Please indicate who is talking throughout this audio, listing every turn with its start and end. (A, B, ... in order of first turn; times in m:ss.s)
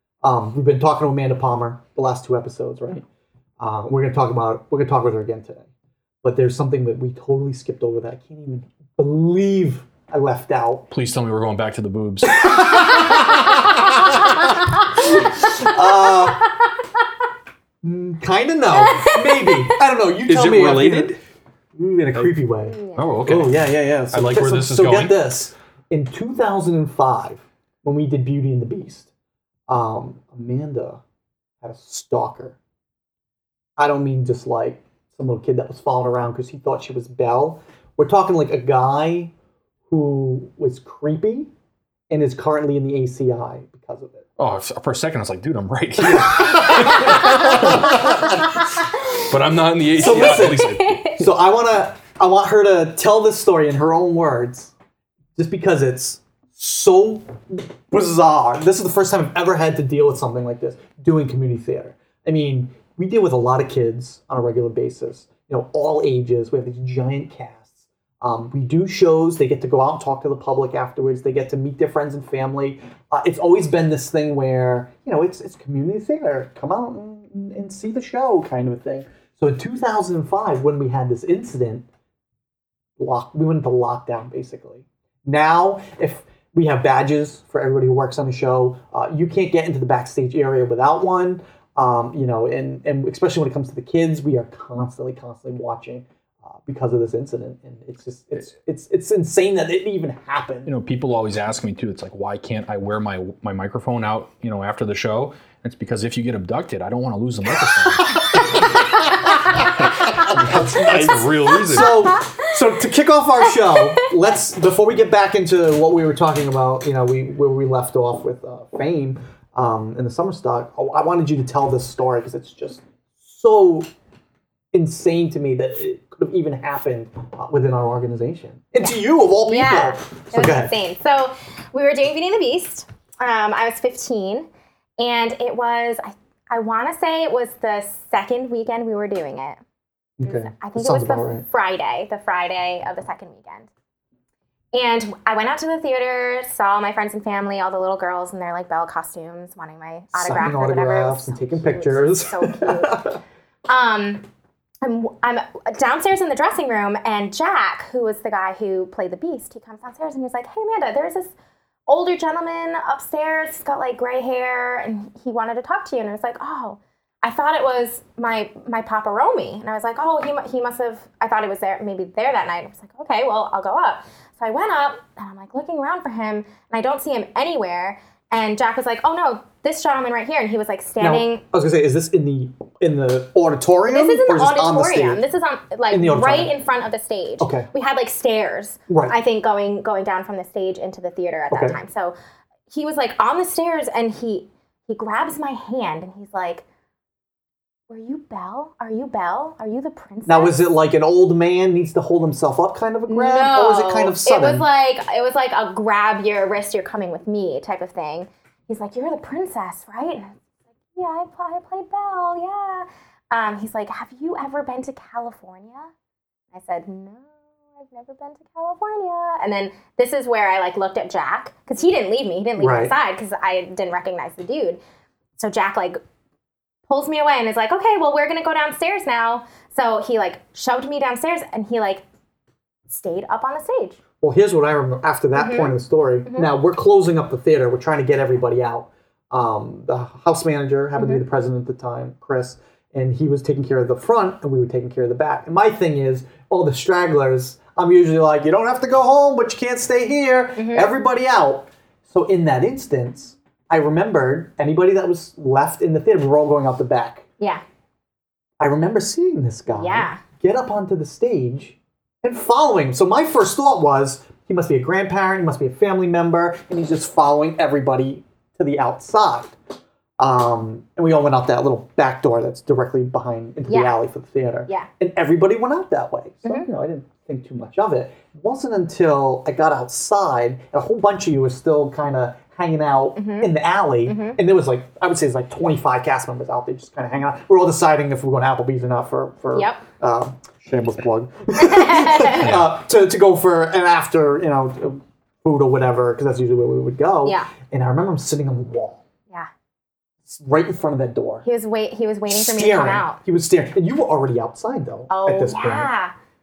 0:00.2-0:03.0 A
0:03.6-0:05.7 A
0:06.2-0:10.9 A
0:10.9-0:14.5 B
0:12.3-0:13.2 A
0:13.8-0:14.2 A
0:15.0-0:16.5 A
0:17.8-0:21.2 A
0:18.8-0:19.7 C
0:20.3-0:21.1 B
0:21.8-0:29.1 A
0:22.7-0:23.2 C
0:23.0-0:25.2 B
0:29.7-0:31.0 A
0:31.6-0:32.6 A
0:33.8-0:39.3 A
0:39.9-0:41.5 A
0:42.1-0:44.3 A
0:44.4-0:48.5 B
0:46.1-0:48.4 A
0:49.2-0:51.2 B
0:50.0-0:54.7 A
0:50.0-0:51.2 C
0:55.4-1:21.9 A
1:23.0-1:40.7 A
1:40.7-1:48.8 B
1:48.3-1:48.6 A
1:49.5-2:03.9 A
1:49.8-1:52.1 B
1:51.5-1:52.5 C
1:53.8-1:54.0 C
2:04.7-2:10.7 A
2:08.8-2:14.5 C
2:15.0-2:19.6 C
2:20.2-2:21.5 A
2:20.2-2:23.7 C
2:24.7-2:33.1 C
2:30.1-2:33.2 A
2:33.7-2:34.2 C
2:34.8-2:41.3 C
2:41.9-3:01.4 C
3:01.0-3:05.2 A
3:03.9-3:12.2 C
3:05.9-3:06.5 A
3:07.4-3:07.7 A
3:08.9-3:09.2 A
3:11.5-3:11.8 A
3:12.7-3:16.6 C
3:17.9-3:20.6 C
3:20.3-3:24.7 A
3:23.1-3:30.4 C
3:31.0-3:35.9 C
3:36.5-3:44.8 C
3:42.6-3:43.0 A
3:45.4-3:46.0 C
3:46.9-3:52.0 C
3:52.9-3:54.0 C
3:54.2-4:17.2 A
3:55.4-3:56.5 C
4:01.0-4:01.2 C
4:10.6-4:10.9 C
4:18.6-4:29.6 A
4:19.8-4:20.2 C
4:30.2-4:59.0 A
4:33.7-4:34.0 C
4:43.2-4:43.5 C
4:44.1-4:44.4 C
4:49.5-4:49.8 C
4:51.6-4:52.5 C
4:52.4-4:52.7 B
5:00.3-5:01.5 A
5:01.4-5:03.2 C
5:02.3-5:05.9 A
5:05.1-5:06.1 C